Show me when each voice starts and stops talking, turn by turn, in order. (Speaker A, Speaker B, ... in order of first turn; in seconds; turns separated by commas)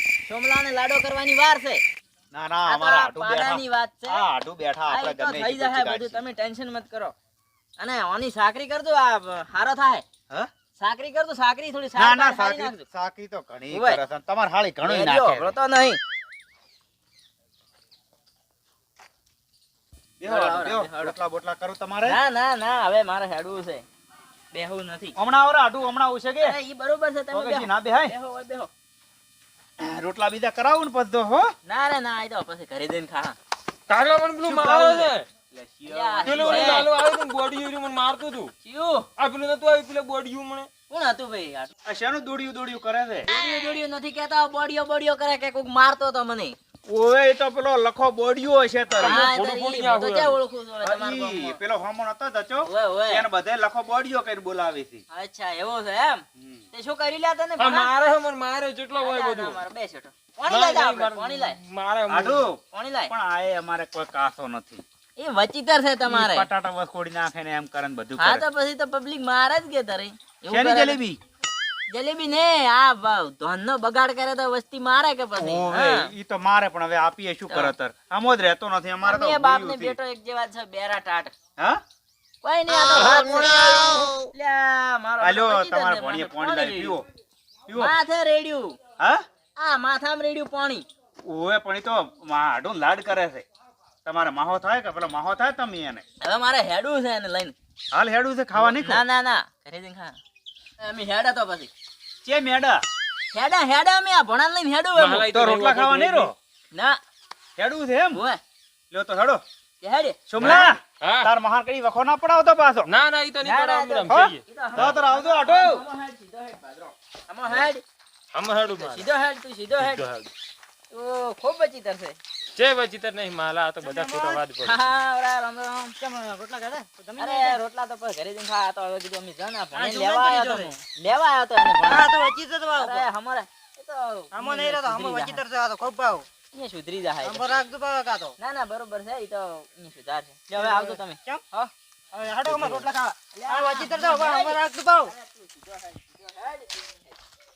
Speaker A: 0.2-1.8, Speaker B: 2.3-6.2, Speaker A: 2.7-4.2, Speaker A: 4.9-7.1, Speaker A: 7.8-10.0, Speaker A: 10.8-12.8, Speaker B: 11.9-15.6, Speaker A: 13.7-14.0, Speaker A: 14.8-16.0, Speaker B: 20.2-22.2, Speaker A: 20.2-21.1, Speaker A: 22.0-23.8, Speaker A: 24.5-25.1, Speaker B: 25.1-26.6, Speaker A: 26.4-28.7, Speaker B: 27.3-28.1, Speaker B: 29.8-31.5, Speaker A: 31.6-33.4, Speaker C: 33.9-35.2, Speaker B: 34.4-36.9, Speaker A: 35.9-36.9, Speaker C: 36.2-38.5, Speaker A: 38.6-39.0, Speaker C: 39.2-40.7, Speaker A: 40.9-41.7, Speaker B: 41.8-43.3, Speaker A: 43.3-46.5, Speaker B: 46.9-49.2, Speaker C: 48.9-50.4, Speaker A: 49.0-51.6, Speaker B: 50.8-55.0, Speaker A: 52.6-53.2, Speaker A: 55.1-57.9, Speaker B: 56.4-56.6, Speaker C: 57.6-59.6, Speaker A: 59.0-61.6, Speaker C: 60.5-62.5, Speaker B: 62.1-64.8, Speaker A: 62.7-63.1, Speaker A: 65.2-66.5, Speaker B: 66.0-68.4, Speaker A: 68.2-71.0, Speaker B: 70.5-71.2, Speaker A: 71.9-76.1, Speaker B: 75.3-80.0, Speaker A: 77.5-77.7, Speaker A: 79.0-81.3, Speaker A: 82.4-87.0, Speaker C: 82.8-84.3, Speaker B: 85.2-87.0, Speaker B: 87.7-87.9, Speaker A: 87.7-88.8, Speaker A: 89.5-90.8, Speaker B: 91.2-93.4, Speaker B: 94.0-96.0, Speaker A: 96.2-97.5, Speaker B: 97.9-99.0, Speaker A: 98.5-100.2, Speaker A: 100.8-101.7, Speaker B: 102.2-102.8, Speaker A: 103.3-105.3, Speaker C: 104.9-106.3, Speaker B: 105.3-106.3, Speaker A: 106.7-107.0, Speaker B: 107.6-108.2, Speaker A: 108.1-108.4, Speaker B: 108.9-109.4, Speaker A: 109.8-110.7, Speaker B: 110.3-112.9, Speaker C: 110.4-111.3, Speaker C: 112.8-115.0, Speaker A: 113.4-117.8, Speaker B: 114.1-115.8, Speaker C: 118.3-119.1, Speaker A: 118.7-120.0, Speaker C: 119.8-120.3, Speaker A: 120.9-122.2, Speaker C: 122.5-124.8, Speaker D: 123.8-124.4, Speaker A: 124.6-126.0, Speaker D: 126.0-127.6, Speaker A: 127.2-132.1, Speaker D: 129.7-130.7, Speaker D: 131.8-133.1, Speaker A: 132.7-135.4, Speaker D: 134.3-136.2, Speaker A: 136.5-137.5, Speaker D: 137.2-138.3, Speaker A: 138.4-141.7, Speaker D: 140.6-141.4, Speaker D: 142.1-145.1, Speaker A: 142.5-147.1